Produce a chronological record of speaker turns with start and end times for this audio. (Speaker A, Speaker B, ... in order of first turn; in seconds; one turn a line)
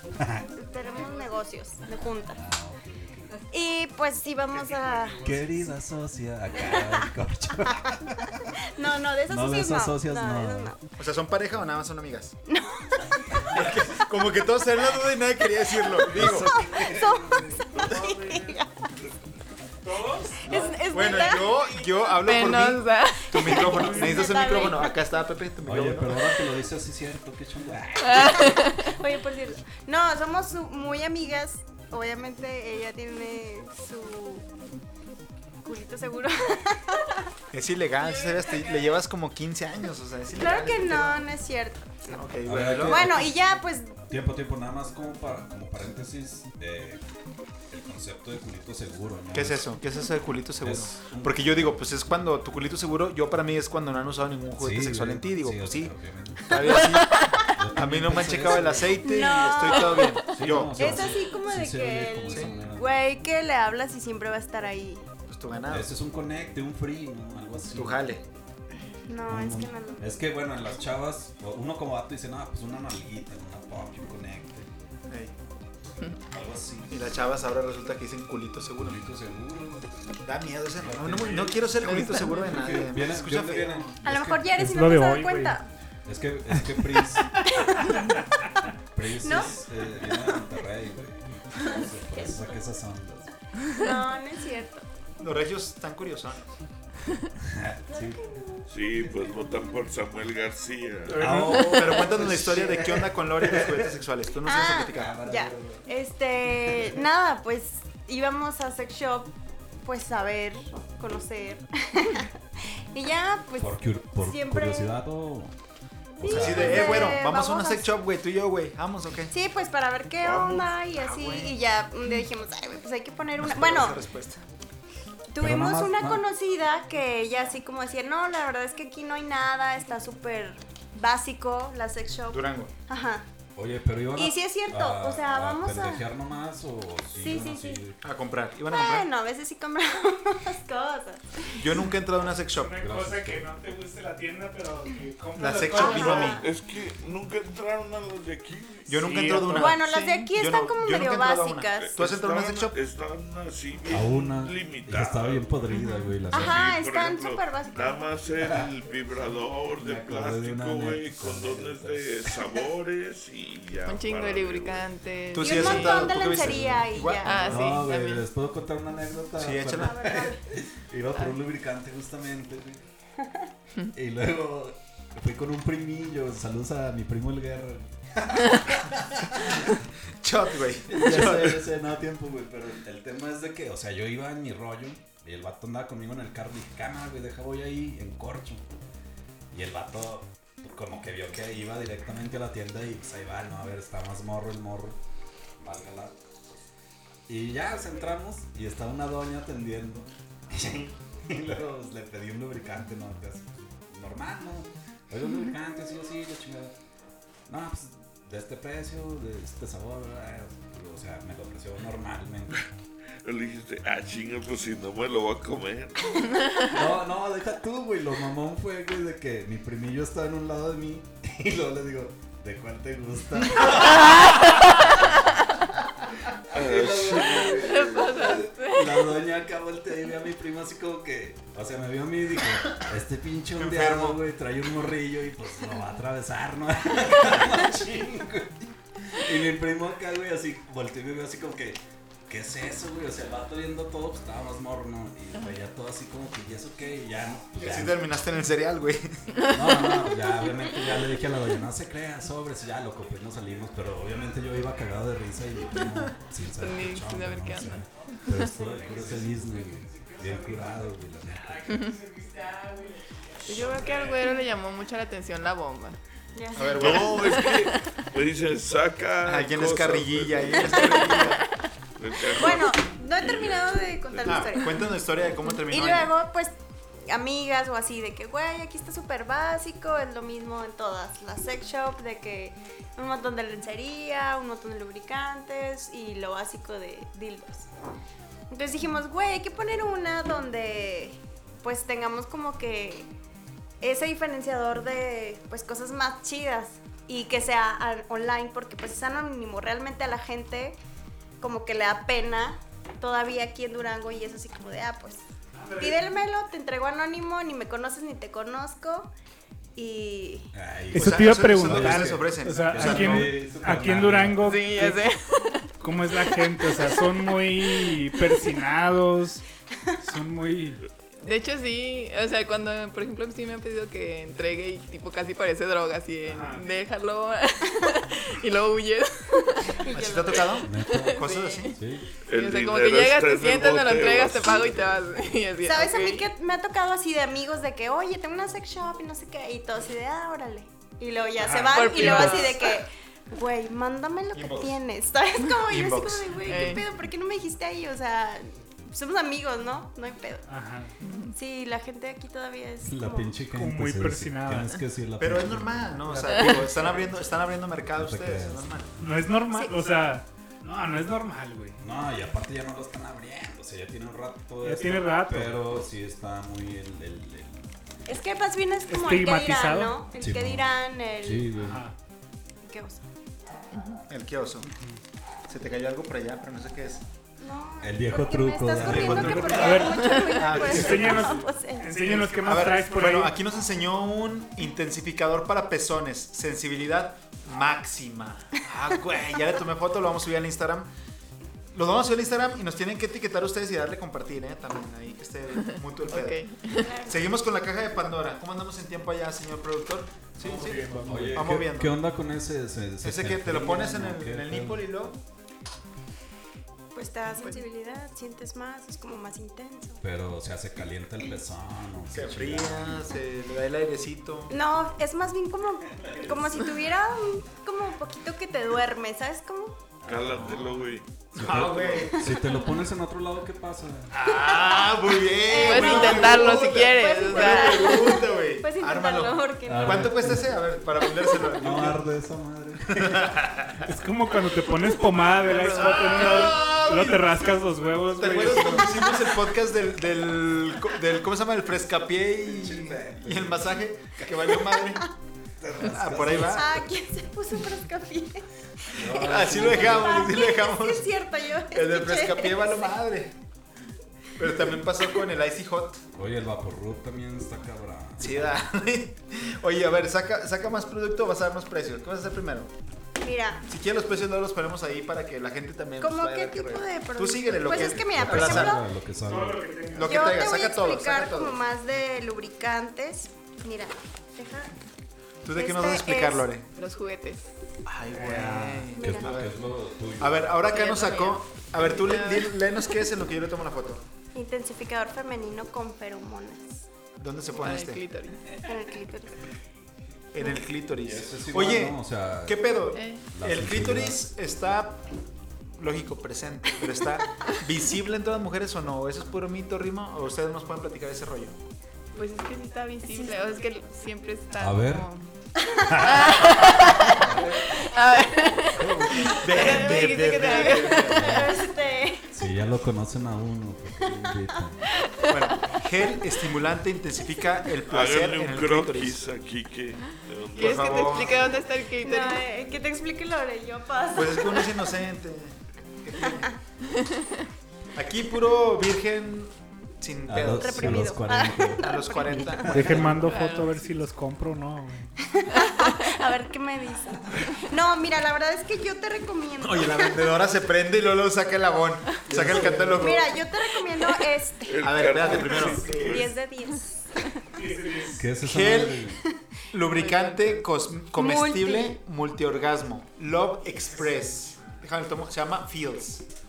Speaker A: 0.1-0.5
Speaker B: 0.6-2.4
Speaker C: 0.9-1.4
Speaker A: 2.3-3.4
Speaker B: 3.5-5.2
Speaker D: 4.5-5.6
Speaker A: 5.2-8.5
Speaker B: 6.6-6.9
Speaker B: 8.6-10.8
Speaker A: 9.3-10.7
Speaker E: 11.0-12.3
Speaker B: 12.5-13.4
Speaker E: 13.4-16.5
Speaker A: 16.1-17.7
Speaker B: 16.5-18.7
Speaker D: 17.6-18.5
Speaker D: 19.8-20.4
Speaker B: 20.4-21.6
Speaker A: 20.5-20.7
Speaker E: 20.9-26.3
Speaker C: 21.0-24.0
Speaker B: 23.4-24.9
Speaker A: 25.6-28.6
Speaker C: 28.0-28.9
Speaker B: 28.9-34.5
Speaker B: 35.6-37.2
Speaker E: 37.5-41.2
Speaker C: 38.0-39.0
Speaker B: 40.4-42.2
Speaker E: 42.1-43.0
Speaker A: 42.5-43.4
Speaker B: 42.8-44.0
Speaker A: 44.1-47.0
Speaker A: 47.7-49.6
Speaker E: 49.3-55.9
Speaker A: 50.6-51.8
Speaker A: 54.6-56.9
Speaker E: 56.4-61.1
Speaker A: 57.5-59.3
Speaker B: 59.0-60.2
Speaker C: 59.5-60.0
Speaker A: 60.3-62.9
Speaker B: 60.8-65.0
Speaker E: 65.3-65.9
Speaker A: 65.7-68.3
Speaker E: 67.7-68.2
Speaker B: 69.1-70.1
Speaker A: 69.3-74.7
Speaker A: 76.3-77.1
Speaker E: 76.9-79.0
Speaker A: 78.8-80.0
Speaker E: 80.2-83.9
Speaker A: 80.8-84.4
Speaker C: 81.8-82.6
Speaker B: 84.0-85.7
Speaker D: 84.5-85.6
Speaker A: 86.1-87.5
Speaker B: 87.5-88.2
Speaker A: 88.9-93.3
Speaker B: 89.2-89.6
Speaker B: 93.8-94.8
Speaker E: 95.2-96.4
Speaker A: 97.4-98.2
Speaker B: 97.9-98.7
Speaker F: 98.7-101.3
Speaker A: 101.1-104.0
Speaker E: 101.1-105.2
Speaker D: 101.2-101.9
Speaker B: 104.5-112.3
Speaker A: 104.9-105.8
Speaker B: 112.9-115.0
Speaker A: 113.6-115.5
Speaker B: 116.2-117.9
Speaker A: 116.2-117.2
Speaker E: 116.2-119.3
Speaker B: 119.3-124.0
Speaker F: 120.2-120.8
Speaker E: 120.9-121.6
Speaker E: 123.4-124.4
Speaker B: 125.3-133.2
Speaker A: 125.4-126.2
Speaker E: 132.3-132.7
Speaker A: 133.6-138.0
Speaker B: 134.2-136.0
Speaker B: 137.2-137.9
Speaker E: 138.0-139.1
Speaker B: 138.7-141.6
Speaker E: 141.6-142.8
Speaker D: 142.6-146.4
Speaker A: 142.8-143.5
Speaker E: 145.4-146.4
Speaker B: 145.7-146.5
Speaker F: 146.4-149.0
Speaker E: 148.9-152.8
Speaker D: 149.0-149.8
Speaker B: 149.5-151.9
Speaker F: 151.8-155.5
Speaker A: 153.9-156.7
Speaker C: 155.7-156.1
Speaker B: 156.3-158.1
Speaker F: 156.3-164.9
Speaker A: 158.4-158.7
Speaker A: 159.8-162.5
Speaker C: 163.8-166.1
Speaker E: 165.3-167.8
Speaker B: 165.4-167.5
Speaker A: 166.2-166.9
Speaker C: 167.2-168.3
Speaker A: 167.5-172.8
Speaker E: 169.4-170.3
Speaker B: 169.8-170.4
Speaker A: 173.9-179.7
Speaker E: 180.2-181.7
Speaker A: 180.9-188.7
Speaker A: 189.5-195.0
Speaker A: 195.6-196.2
Speaker A: 197.3-206.8
Speaker A: 207.5-212.7
Speaker F: 213.2-216.4
Speaker A: 216.7-225.2
Speaker A: 226.5-248.1
Speaker F: 226.5-228.0
Speaker C: 227.4-229.1
Speaker E: 233.6-234.2
Speaker E: 247.6-249.1
Speaker C: 249.4-250.1
Speaker A: 249.5-261.7
Speaker C: 256.6-258.4
Speaker C: 261.7-262.0
Speaker C: 263.4-266.0
Speaker A: 263.5-264.1
Speaker B: 266.4-266.9
Speaker E: 266.6-267.4
Speaker F: 266.8-271.3
Speaker C: 267.1-268.0
Speaker E: 269.2-271.5
Speaker C: 271.2-271.4
Speaker F: 272.0-274.5
Speaker B: 272.4-274.9
Speaker E: 274.3-276.1
Speaker B: 275.7-276.6
Speaker B: 277.1-287.7
Speaker B: 288.5-293.1
Speaker B: 293.8-300.8
Speaker B: 301.4-305.2
Speaker D: 305.6-306.0
Speaker B: 305.8-309.1
Speaker B: 309.8-310.5
Speaker A: 310.5-314.6
Speaker D: 310.9-315.0
Speaker E: 311.0-313.7
Speaker C: 314.4-315.7
Speaker D: 315.8-319.4
Speaker C: 316.2-316.9
Speaker D: 320.0-320.8
Speaker C: 321.2-329.9
Speaker D: 326.3-326.6
Speaker B: 329.8-330.4
Speaker E: 329.9-331.8
Speaker C: 330.6-331.8
Speaker A: 330.6-332.1
Speaker F: 332.3-335.0
Speaker C: 332.3-336.3
Speaker B: 335.6-350.5
Speaker E: 341.4-342.5
Speaker C: 341.7-342.8
Speaker D: 342.0-342.4
Speaker E: 344.4-344.8
Speaker E: 345.5-346.8
Speaker C: 346.5-346.8
Speaker D: 350.5-350.9
Speaker C: 351.0-351.3
Speaker B: 351.3-353.4
Speaker A: 352.9-356.3
Speaker D: 353.5-354.8
Speaker E: 355.2-358.9
Speaker D: 356.1-357.0
Speaker A: 357.9-358.8
Speaker D: 359.0-361.8
Speaker A: 361.8-367.7
Speaker D: 364.6-365.6
Speaker B: 368.1-371.5
Speaker D: 368.9-370.0
Speaker A: 370.2-370.7
Speaker A: 371.2-371.8
Speaker D: 371.6-371.9
Speaker B: 372.6-373.1
Speaker C: 373.7-374.0
Speaker E: 374.1-374.7
Speaker E: 375.5-377.0
Speaker B: 377.4-382.2
Speaker A: 377.8-379.8
Speaker E: 378.8-381.4
Speaker D: 379.1-383.4
Speaker C: 380.1-380.4
Speaker E: 382.4-390.9
Speaker E: 391.7-396.4
Speaker C: 396.1-396.9
Speaker B: 396.8-397.2
Speaker E: 397.0-402.0
Speaker D: 400.4-401.5
Speaker A: 401.1-404.9
Speaker E: 403.0-405.2
Speaker B: 406.9-410.0
Speaker A: 410.0-413.1
Speaker E: 412.1-414.5
Speaker B: 414.5-419.8
Speaker A: 416.0-416.4
Speaker F: 420.1-421.2
Speaker A: 420.1-420.7
Speaker E: 420.4-420.7
Speaker E: 421.3-422.5
Speaker A: 421.3-424.1
Speaker E: 424.1-432.0
Speaker B: 425.5-430.1
Speaker C: 425.5-428.1
Speaker A: 429.7-430.6
Speaker A: 431.6-433.3
Speaker E: 433.0-433.8
Speaker D: 433.8-439.1
Speaker C: 435.5-436.5
Speaker E: 435.6-437.3
Speaker E: 438.2-445.1
Speaker A: 442.4-443.8
Speaker A: 445.6-446.8
Speaker E: 445.7-446.8
Speaker B: 446.2-452.9
Speaker A: 448.9-450.3
Speaker E: 449.0-451.1
Speaker E: 451.7-453.4
Speaker E: 454.4-456.0
Speaker A: 456.1-458.6
Speaker E: 458.2-462.7
Speaker B: 463.2-463.6
Speaker E: 463.7-468.8
Speaker B: 466.0-468.9
Speaker A: 467.7-469.7
Speaker D: 469.2-470.5
Speaker E: 469.9-471.6
Speaker B: 470.0-474.8
Speaker E: 475.4-476.7
Speaker B: 475.5-476.5
Speaker C: 476.8-477.5
Speaker E: 477.9-479.6
Speaker D: 478.1-478.9
Speaker B: 478.9-479.3
Speaker A: 479.0-480.8
Speaker E: 480.2-484.1
Speaker C: 480.7-482.6
Speaker B: 484.4-486.9
Speaker E: 487.2-488.0
Speaker C: 487.5-488.4
Speaker B: 488.6-489.5
Speaker E: 490.3-495.0
Speaker A: 491.0-492.8
Speaker C: 492.9-493.2
Speaker A: 493.3-494.3
Speaker E: 495.8-501.6
Speaker C: 502.1-511.3
Speaker A: 504.6-505.1
Speaker A: 505.9-506.3
Speaker E: 507.2-507.7
Speaker A: 508.7-509.4
Speaker E: 509.2-511.4
Speaker B: 509.5-512.3
Speaker A: 511.1-511.6
Speaker A: 512.3-514.8
Speaker C: 515.0-515.3
Speaker E: 515.3-519.2
Speaker F: 517.9-521.5
Speaker E: 520.6-521.4
Speaker C: 520.6-522.4
Speaker B: 522.0-524.8
Speaker E: 524.1-526.5
Speaker B: 526.3-526.5
Speaker C: 527.0-527.3
Speaker E: 528.0-531.1
Speaker A: 530.3-533.2
Speaker B: 530.5-532.6
Speaker E: 531.8-533.2
Speaker D: 532.6-535.1
Speaker C: 533.1-533.8
Speaker B: 535.2-540.3
Speaker E: 539.6-543.4
Speaker D: 542.3-543.0
Speaker A: 542.3-543.0
Speaker B: 543.0-547.4
Speaker F: 544.7-546.3
Speaker E: 544.8-546.3
Speaker D: 545.8-546.1
Speaker D: 547.5-548.3
Speaker A: 548.1-549.2
Speaker E: 548.4-549.1
Speaker E: 549.7-556.2
Speaker C: 549.9-550.6
Speaker B: 551.1-552.0
Speaker D: 554.0-554.8